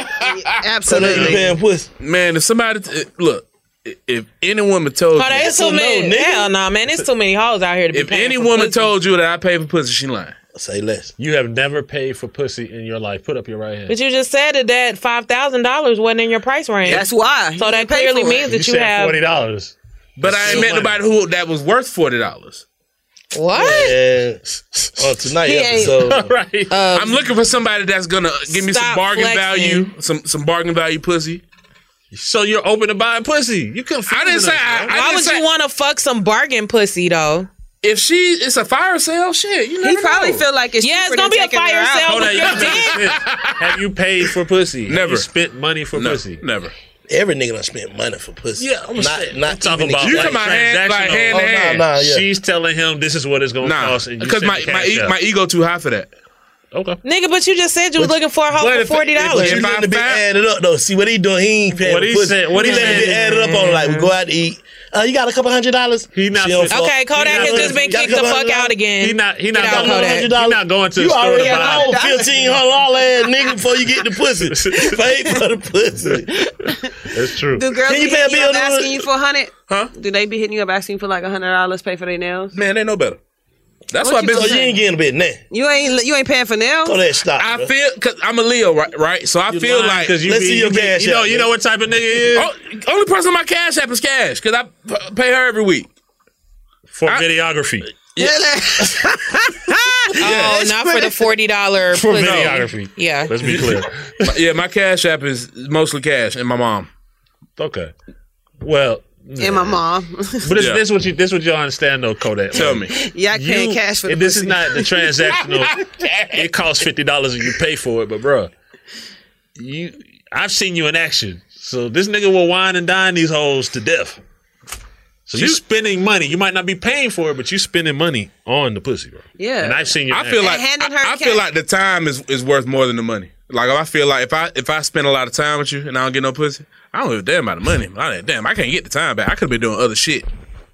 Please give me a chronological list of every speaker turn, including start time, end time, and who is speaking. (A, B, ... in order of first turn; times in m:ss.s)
0:00.2-0:01.5 A
0:00.9-0:01.9 B
0:00.9-0:01.5 C
0:02.0-0:05.5 D
0:05.2-0:08.9 E
0:05.4-0:06.5 B
0:07.9-0:10.4 D
0:10.6-0:11.1 B
0:11.2-0:14.0 C
0:13.9-0:19.2 E
0:16.9-0:18.5 A
0:18.4-0:21.0 C
0:20.2-0:22.6 D
0:20.5-0:20.9 B
0:23.3-0:24.0 E
0:23.5-0:24.4 B
0:24.7-0:25.0 C
0:25.0-0:26.3 B
0:25.4-0:26.2 A
0:25.8-0:26.8 C
0:26.7-0:27.2 E
0:26.9-0:31.4 D
0:28.5-0:29.9 E
0:32.1-0:35.0 C
0:34.1-0:35.4 D
0:34.9-0:37.5 E
0:37.8-0:40.4 D
0:39.8-0:42.7 A
0:40.8-0:43.1 E
0:42.0-0:46.4 C
0:42.9-0:43.8 D
0:44.9-0:45.3 D
0:45.9-0:46.7 D
0:47.1-0:50.5 B
0:48.6-0:55.2 C
0:50.0-0:51.8 D
0:51.3-0:52.3 B
0:53.6-0:56.1 D
0:56.7-0:57.0 C
0:57.0-0:59.6 E
0:58.5-0:59.6 C
0:59.2-1:08.8 B
0:59.3-1:00.2 D
1:01.8-1:03.9 C
1:02.7-1:03.0 A
1:02.7-1:04.1 E
1:06.1-1:08.0 C
1:06.7-1:10.3 E
1:09.0-1:12.0 C
1:09.6-1:16.4 B
1:11.3-1:12.6 A
1:13.2-1:13.6 A
1:14.4-1:15.0 C
1:14.8-1:15.4 A
1:16.4-1:22.6 A
1:17.1-1:17.7 C
1:17.7-1:19.1 B
1:22.5-1:23.2 D
1:23.9-1:24.6 D
1:24.0-1:24.8 A
1:24.2-1:25.4 B
1:25.5-1:27.0 A
1:26.8-1:27.7 B
1:27.4-1:30.2 D
1:29.5-1:32.5 C
1:30.2-1:31.5 B
1:32.3-1:35.9 D
1:36.9-1:37.9 C
1:38.2-1:39.0 A
1:40.2-1:43.4 E
1:40.2-1:40.7 C
1:40.2-1:40.8 D
1:41.9-1:44.4 C
1:44.2-1:46.9 D
1:47.6-1:47.9 C
1:48.6-1:49.8 C
1:49.4-1:50.6 A
1:50.4-1:55.8 C
1:50.6-1:50.8 D
1:52.5-1:53.0 D
1:52.8-1:54.9 A
1:55.3-1:56.4 D
1:56.3-1:58.5 C
1:59.6-2:04.2 C
2:05.3-2:10.5 C
2:05.4-2:05.6 D
2:09.4-2:11.5 A
2:10.1-2:20.3 D